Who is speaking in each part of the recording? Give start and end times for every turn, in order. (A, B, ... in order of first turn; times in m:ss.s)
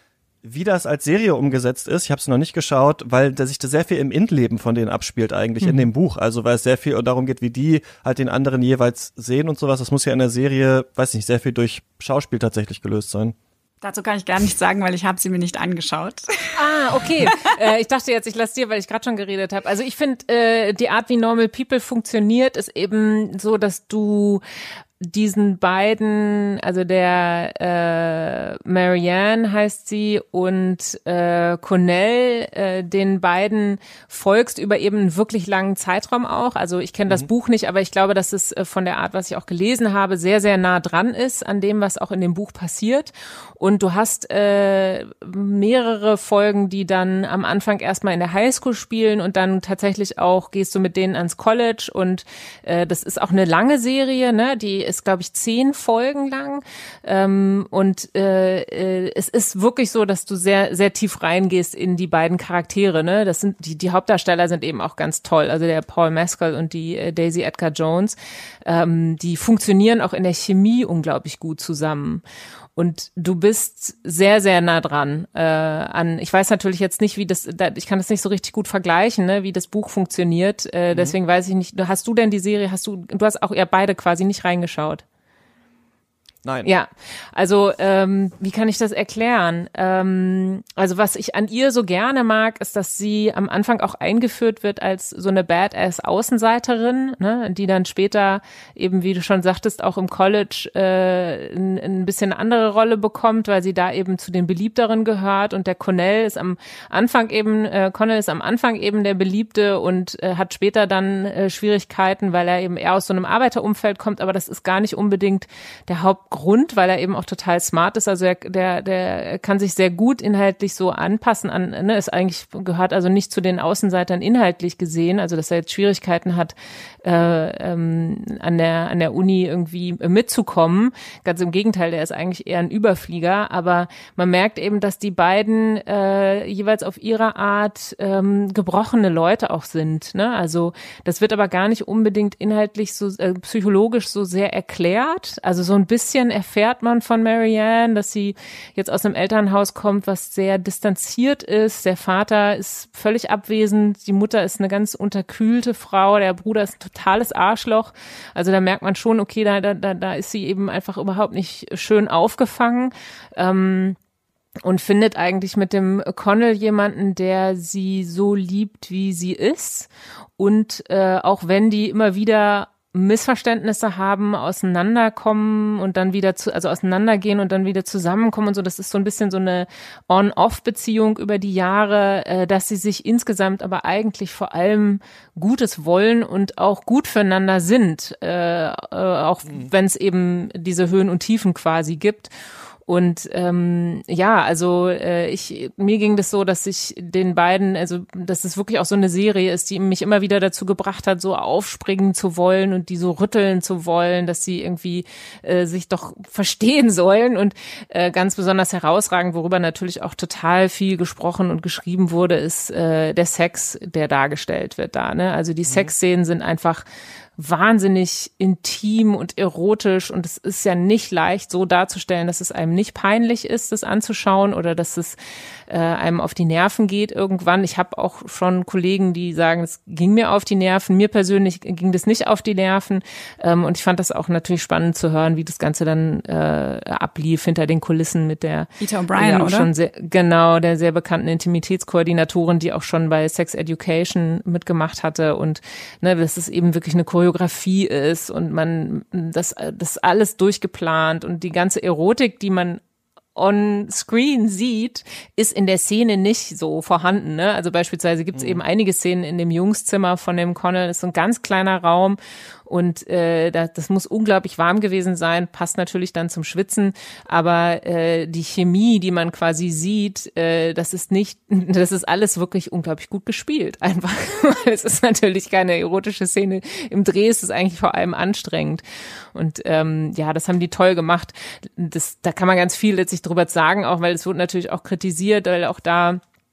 0:00.4-0:13.4 A
0:13.8-0:17.5 B
0:16.5-0:24.4 C
0:25.0-1:12.2 C
1:12.8-1:25.0 C
1:20.9-1:21.2 A
1:26.4-1:26.7 A
1:26.6-2:44.0 C
2:44.6-3:12.3 C
3:12.8-3:36.8 C
3:35.6-3:35.9 A
3:37.4-3:45.2 C
3:45.7-4:12.8 C
3:58.8-3:59.7 B
4:13.3-4:38.8 C
4:18.3-4:18.6 A
4:39.3-4:46.2 C